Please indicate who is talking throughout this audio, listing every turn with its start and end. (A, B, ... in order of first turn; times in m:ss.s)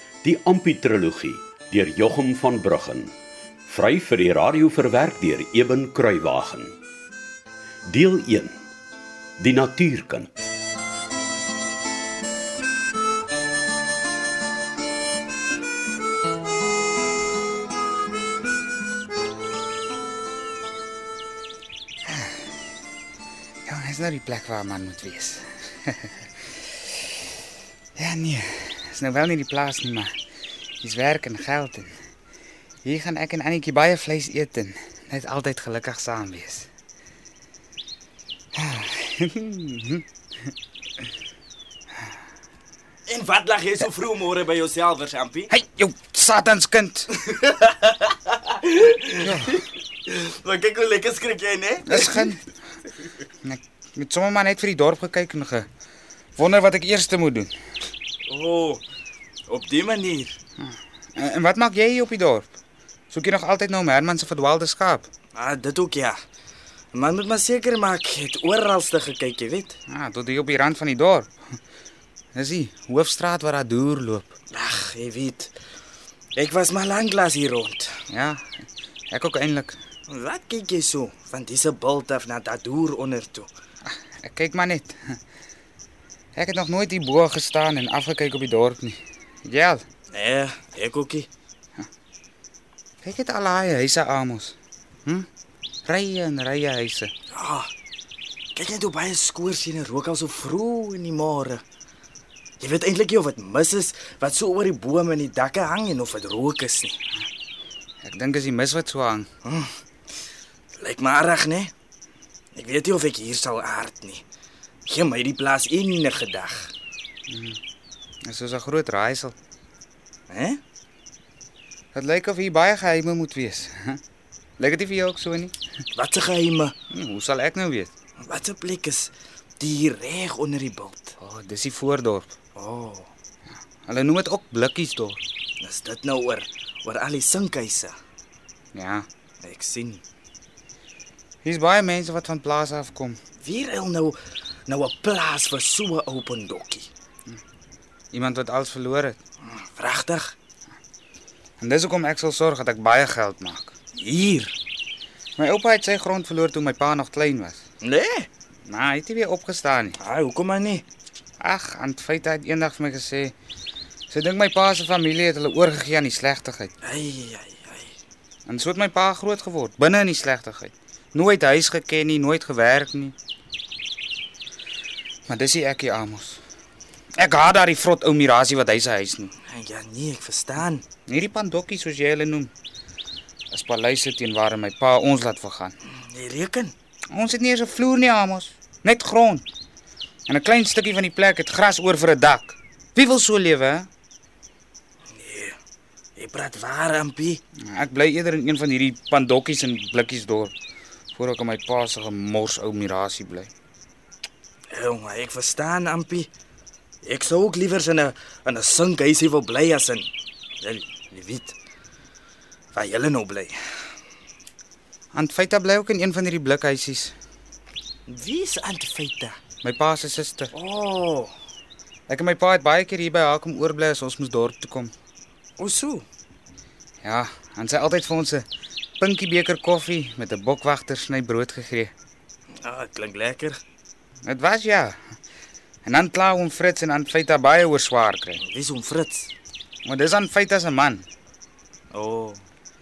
0:00.2-0:03.1 A
0:03.7-0:06.8 A
0:07.9-0:08.6 A
0:09.4-0:10.3 A
0:22.1-0:22.4 B
0:23.7-0:26.2 B
0:28.0-0:30.1 B
0:30.8-0:31.9 B
0:32.8-0:36.7 B
0:38.6-0:40.0 B
0:43.1-0:45.5 C
0:45.5-0:47.1 B
0:47.2-0:52.4 C
0:49.2-0:49.6 B
0:51.9-0:52.4 B
0:53.4-0:55.7 B
0:56.4-0:57.5 B
0:58.3-0:58.8 C
0:59.5-1:00.4 C
1:00.6-1:02.5 B
1:03.1-1:05.1 B
1:05.4-1:06.2 C
1:06.9-1:09.8 C
1:09.9-1:11.3 B
1:12.4-1:14.3 B
1:14.5-1:15.5 C
1:16.4-1:17.9 C
1:18.1-1:18.4 B
1:19.1-1:19.8 B
1:20.1-1:23.5 C
1:24.2-1:25.0 B
1:26.4-1:29.8 B
1:30.1-1:31.3 C
1:33.0-1:35.3 B
1:35.9-1:37.1 B
1:37.3-1:37.7 C
1:38.6-1:41.6 C
1:42.6-1:47.0 C
1:48.0-1:49.3 B
1:49.4-1:49.7 C
1:50.8-1:51.7 C
1:52.6-1:54.2 C
1:54.9-1:56.7 C
1:57.3-1:57.6 B
1:58.3-1:59.3 B
2:00.3-2:00.6 C
2:01.9-2:04.0 B
2:04.6-2:05.6 B
2:06.0-2:06.7 C
2:06.9-2:07.9 B
2:08.2-2:11.2 C
2:11.2-2:12.3 B
2:12.6-2:13.1 C
2:13.9-2:15.2 B
2:15.6-2:17.9 C
2:18.7-2:19.1 B
2:19.4-2:20.0 C
2:21.4-2:23.2 B
2:23.4-2:26.9 C
2:28.1-2:29.2 B
2:29.4-2:30.4 C
2:31.6-2:33.7 B
2:34.0-2:34.6 C
2:35.4-2:37.6 B
2:37.8-2:38.3 C
2:38.7-2:40.0 B
2:40.0-2:40.8 C
2:41.4-2:43.3 B
2:44.1-2:46.7 B
2:46.8-2:48.0 C
2:48.5-2:53.2 B
2:55.3-2:56.4 B
2:57.2-2:59.3 B
2:59.5-3:00.8 C
3:01.1-3:02.5 B
3:03.5-3:05.7 B
3:06.1-3:06.7 C
3:07.1-3:09.4 B
3:10.3-3:13.9 B
3:15.1-3:15.6 C
3:16.2-3:17.4 C
3:17.7-3:20.5 B
3:21.2-3:23.5 B
3:24.7-3:26.3 C
3:27.0-3:30.1 C
3:30.6-3:31.6 C
3:32.7-3:33.6 C
3:35.1-3:37.2 B
3:38.1-3:39.4 C
3:39.6-3:40.5 B
3:40.5-3:41.3 C
3:42.1-3:44.9 B
3:45.6-3:46.0 C
3:47.0-3:48.5 B
3:49.0-3:51.9 B
3:52.6-3:53.6 C
3:54.2-3:55.0 B
3:55.8-3:58.4 B
3:58.4-3:59.3 C
3:59.8-4:01.0 B
4:01.9-4:02.4 C